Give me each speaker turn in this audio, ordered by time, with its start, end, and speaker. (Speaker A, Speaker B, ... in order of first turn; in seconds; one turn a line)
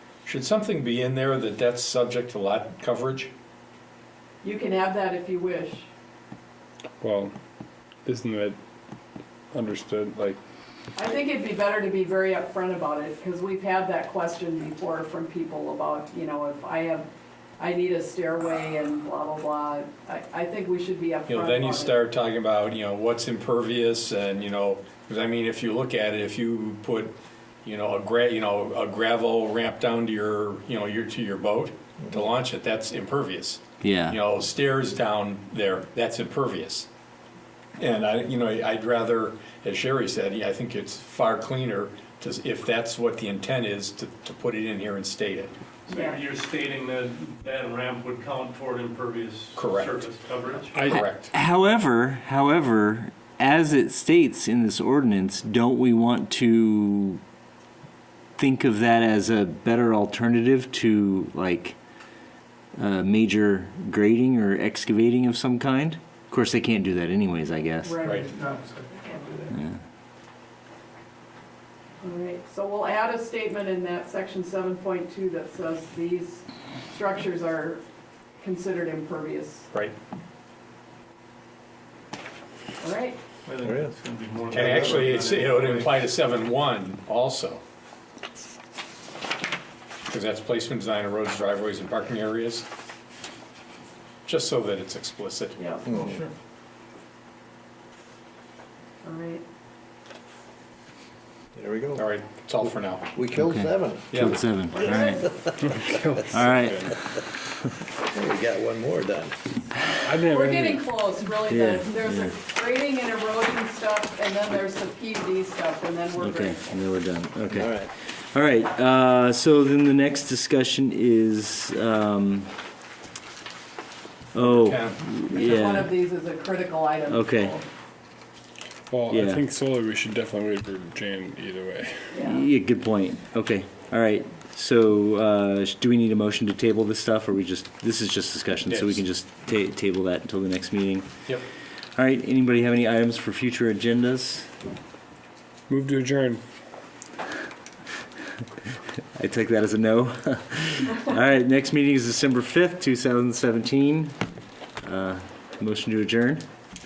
Speaker A: 0.2-3.3
Speaker B: 4.4-5.9
Speaker C: 7.0-7.3
Speaker C: 8.0-8.6
Speaker C: 9.5-10.4
Speaker B: 10.9-21.9
Speaker A: 21.3-36.9
Speaker D: 33.8-34.2
Speaker A: 37.8-45.5
Speaker E: 45.9-50.9
Speaker B: 45.9-46.2
Speaker A: 49.5-50.0
Speaker A: 50.7-51.3
Speaker D: 50.9-57.2
Speaker D: 58.4-61.8
Speaker D: 62.8-67.9
Speaker B: 67.8-69.5
Speaker A: 68.0-68.3
Speaker D: 69.5-69.8
Speaker B: 72.0-77.8
Speaker B: 78.4-79.7
Speaker B: 82.8-83.2
Speaker E: 83.5-86.1
Speaker F: 83.6-83.9
Speaker A: 84.5-87.6
Speaker F: 84.6-85.0
Speaker A: 90.0-92.7
Speaker A: 94.2-95.6
Speaker B: 95.6-96.3
Speaker F: 95.9-96.2
Speaker B: 99.0-99.4
Speaker F: 101.5-102.0
Speaker A: 101.9-103.1
Speaker F: 103.1-104.2
Speaker D: 103.3-105.4
Speaker A: 104.1-104.4
Speaker B: 104.7-105.4
Speaker C: 105.6-106.9
Speaker D: 106.3-107.4
Speaker F: 108.0-109.3
Speaker C: 110.0-110.8
Speaker B: 110.2-116.6
Speaker D: 111.5-112.3
Speaker D: 116.2-122.5
Speaker F: 117.5-117.9
Speaker D: 124.3-125.9
Speaker A: 124.3-125.0
Speaker B: 125.3-127.6
Speaker D: 127.1-127.6
Speaker C: 128.9-132.2
Speaker D: 129.1-129.4
Speaker B: 132.1-132.4
Speaker D: 132.2-141.1
Speaker A: 138.7-139.0
Speaker D: 141.9-144.5
Speaker C: 145.7-146.4
Speaker D: 149.2-154.1
Speaker D: 154.8-156.4